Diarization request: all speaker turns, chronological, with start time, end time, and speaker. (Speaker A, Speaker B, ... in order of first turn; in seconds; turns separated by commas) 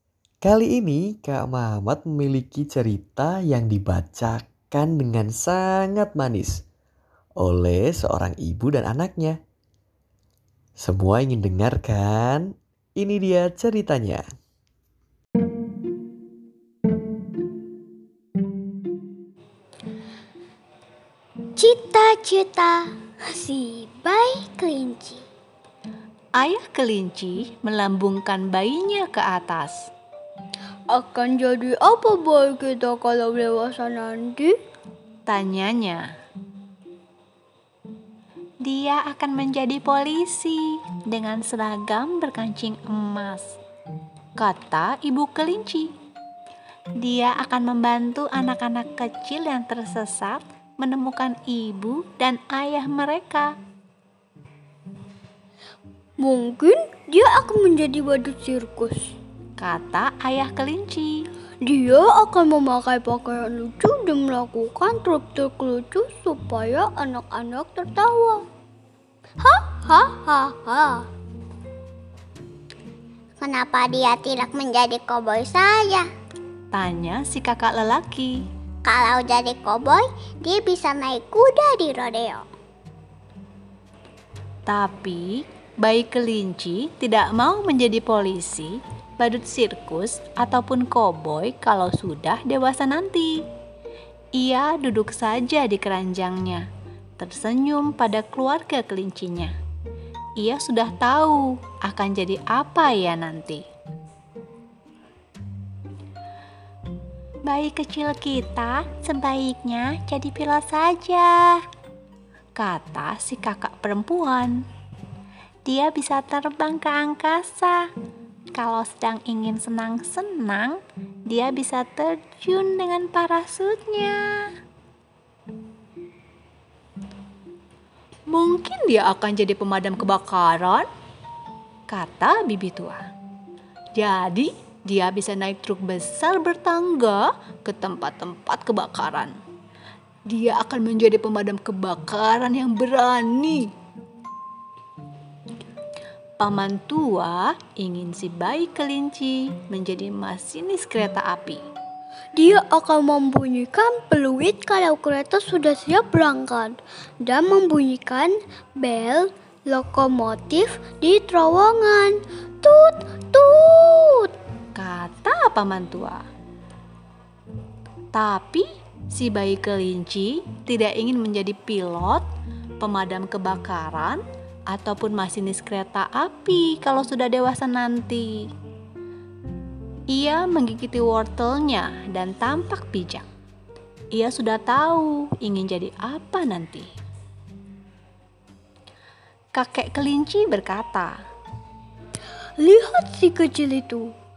Speaker A: 0.4-6.6, Speaker A: 7.4-9.4, Speaker A: 10.8-14.2, Speaker B: 21.6-25.2, Speaker C: 26.4-29.9, Speaker B: 30.9-34.5, Speaker C: 35.3-36.0, Speaker C: 38.6-43.6, Speaker C: 44.4-45.9, Speaker C: 47.0-53.5, Speaker B: 56.2-59.1, Speaker C: 59.6-61.2, Speaker B: 61.6-68.4, Speaker B: 69.4-71.0, Speaker D: 73.4-76.1, Speaker C: 76.7-78.4, Speaker D: 78.8-82.5, Speaker C: 84.7-93.4, Speaker C: 94.3-96.6, Speaker C: 97.2-99.5, Speaker C: 100.4-103.6, Speaker C: 107.5-111.6, Speaker C: 112.6-114.6, Speaker C: 115.7-117.9, Speaker C: 118.5-124.5, Speaker C: 128.3-130.9, Speaker C: 131.9-133.0, Speaker C: 133.9-139.3, Speaker C: 140.3-143.7, Speaker C: 146.4-151.6, Speaker B: 152.3-164.3, Speaker C: 164.7-166.2, Speaker C: 168.1-172.2, Speaker C: 172.8-178.5, Speaker C: 180.1-183.2, Speaker C: 184.1-186.9, Speaker C: 189.5-191.1, Speaker B: 192.6-194.1